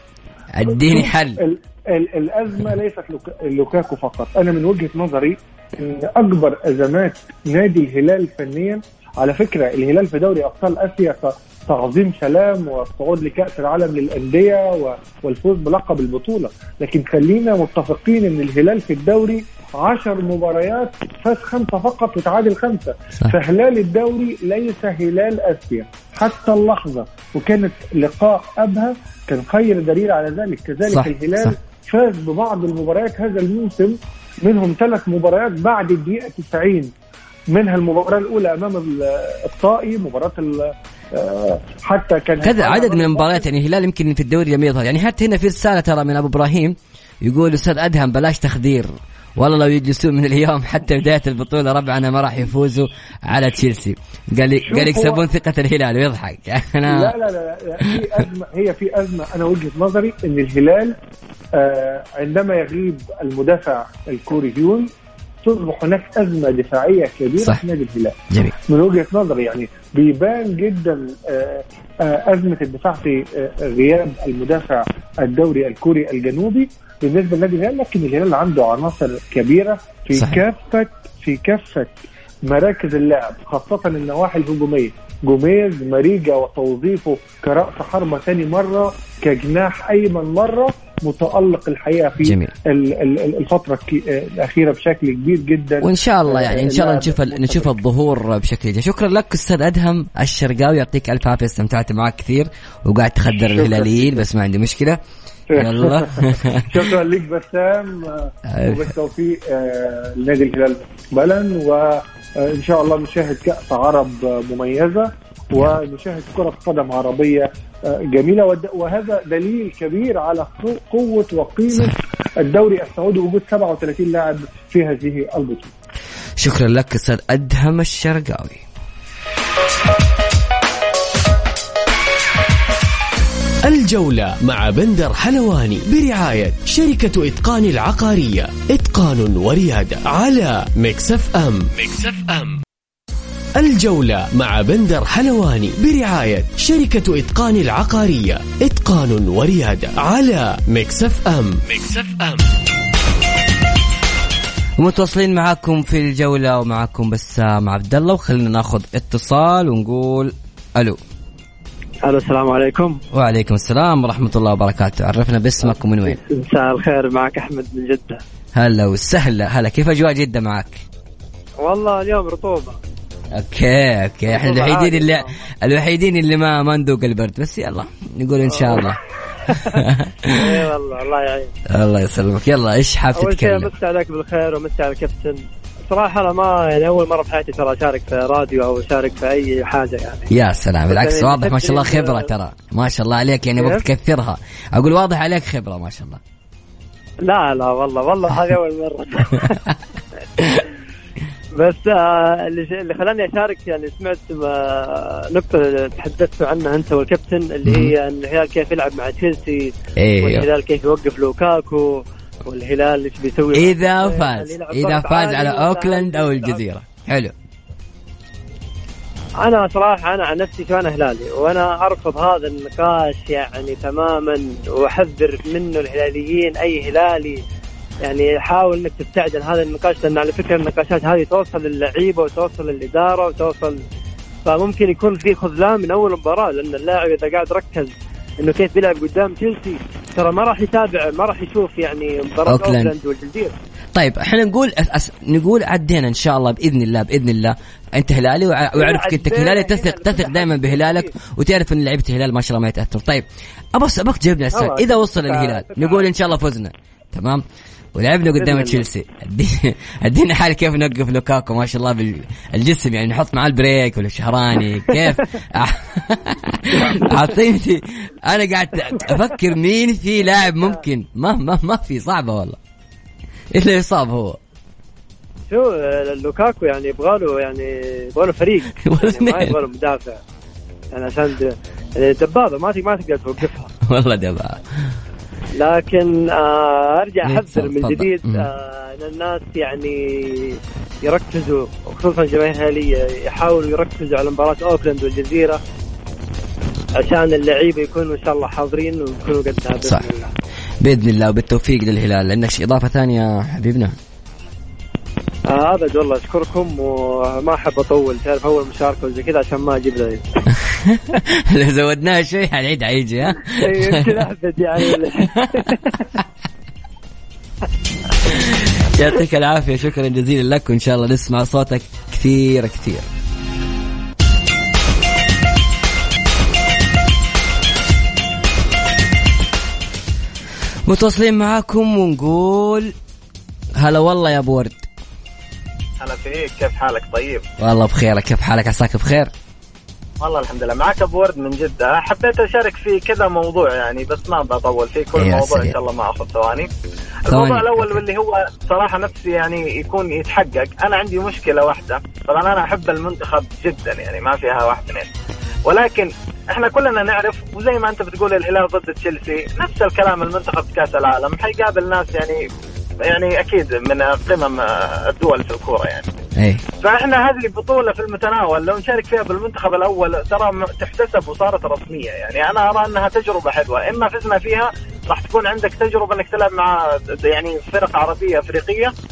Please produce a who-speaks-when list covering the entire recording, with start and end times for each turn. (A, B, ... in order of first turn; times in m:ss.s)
0:00.5-0:01.4 A
0:00.8-0:36.9 B
0:30.9-0:31.5 A
0:37.5-0:43.4 B
0:42.4-0:57.1 A
0:54.6-0:55.2 B
0:56.9-1:01.0 B
1:01.5-1:04.9 B
1:05.4-1:37.7 B
1:32.2-1:32.5 A
1:35.8-1:45.0 A
1:43.6-1:43.9 B
1:45.5-2:05.7 B
1:45.5-1:46.7 A
1:48.5-1:48.8 A
2:06.4-2:08.6 A
2:13.6-2:22.6 C
2:23.6-2:32.5 C
2:34.8-2:41.0 A
2:42.0-2:43.0 D
2:43.1-2:46.2 A
2:46.1-2:48.2 D
2:48.6-2:50.8 A
2:51.6-2:52.8 D
2:53.3-3:00.6 A
2:54.3-2:55.4 D
2:58.5-2:58.8 D
2:59.5-2:59.8 D
3:00.3-3:01.5 D
3:01.7-3:03.7 A
3:03.2-3:10.3 D
3:10.3-3:16.2 A
3:10.9-3:12.3 D
3:13.6-3:13.8 D
3:17.2-3:19.7 D
3:21.6-3:36.6 D
3:27.6-3:27.9 A
3:30.0-3:30.5 A
3:33.5-3:37.3 A
3:39.4-3:47.4 D
3:48.0-3:53.8 D
3:54.4-4:03.6 D
4:02.5-4:02.9 A
4:04.0-4:32.6 A
4:08.8-4:11.1 D
4:14.5-4:16.1 D
4:18.4-4:18.8 D
4:33.5-4:34.4 A
4:35.5-4:40.2 D
4:38.8-4:39.6 A
4:40.9-4:43.7 D
4:43.8-4:44.6 A
4:45.6-4:55.6 D
4:47.2-4:48.5 A
4:57.0-5:00.3 D
5:00.8-5:04.0 A
5:05.5-5:10.2 D
5:10.5-5:14.2 A
5:13.5-5:16.1 D
5:14.9-5:15.7 A
5:18.2-5:23.1 A
5:30.9-5:32.9 A
5:33.8-5:34.9 A
5:36.0-5:37.4 E
5:37.6-5:39.3 A
5:40.2-5:46.7 E
5:45.2-5:45.8 A
5:47.3-5:55.1 E
5:47.3-5:48.0 A
5:55.7-6:02.4 E
6:03.0-6:06.1 E
6:06.4-6:06.6 A
6:06.8-6:18.9 E